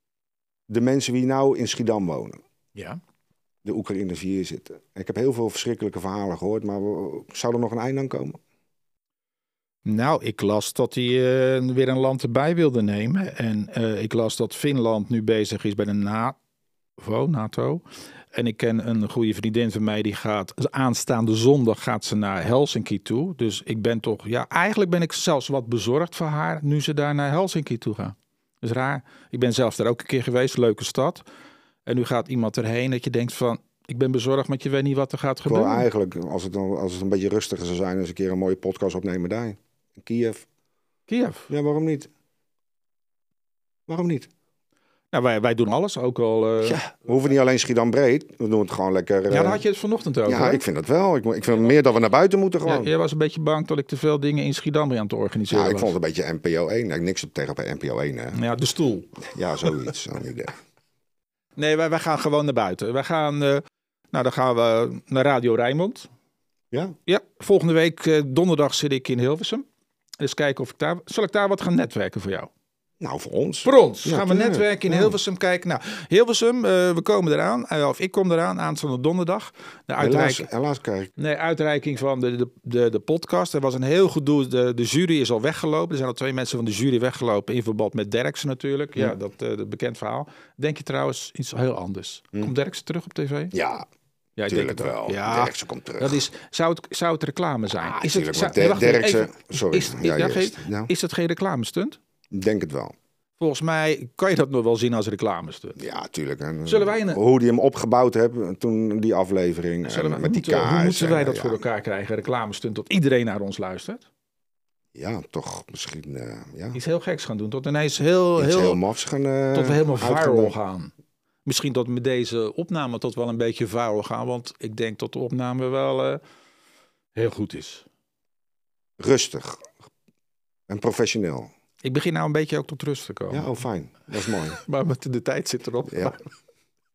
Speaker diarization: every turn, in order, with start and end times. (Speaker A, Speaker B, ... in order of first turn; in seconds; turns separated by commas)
Speaker A: 0.7-2.4, Speaker B: 2.7-3.0, Speaker A: 3.6-8.4, Speaker B: 9.8-16.4, Speaker B: 17.0-17.8, Speaker B: 18.3-31.2, Speaker B: 31.9-35.9, Speaker A: 35.5-40.4, Speaker B: 41.1-41.5, Speaker A: 41.5-42.1, Speaker A: 43.9-44.3, Speaker B: 45.1-46.8, Speaker A: 46.6-49.6, Speaker B: 49.3-50.6, Speaker A: 50.2-52.9, Speaker B: 52.6-55.9, Speaker A: 55.5-58.4, Speaker B: 58.3-59.2, Speaker A: 59.3-60.5, Speaker B: 61.6-66.1, Speaker B: 67.0-69.6, Speaker B: 70.2-72.5, Speaker A: 73.0-75.2, Speaker B: 73.6-80.5, Speaker A: 80.0-81.1, Speaker B: 81.2-93.5, Speaker A: 93.5-93.8, Speaker B: 94.4-102.0, Speaker A: 94.5-96.2, Speaker A: 97.7-100.9, Speaker A: 102.3-102.9, Speaker B: 103.4-105.8, Speaker A: 105.8-111.6, Speaker B: 106.7-107.2, Speaker B: 109.8-114.0, Speaker A: 114.9-116.8, Speaker B: 116.7-118.8, Speaker A: 118.4-120.5, Speaker B: 119.5-120.9, Speaker B: 121.4-126.2, Speaker B: 127.1-127.8, Speaker A: 129.0-129.7, Speaker A: 130.7-131.5, Speaker B: 131.8-133.5, Speaker A: 133.3-134.6, Speaker B: 134.5-136.2, Speaker A: 135.9-136.1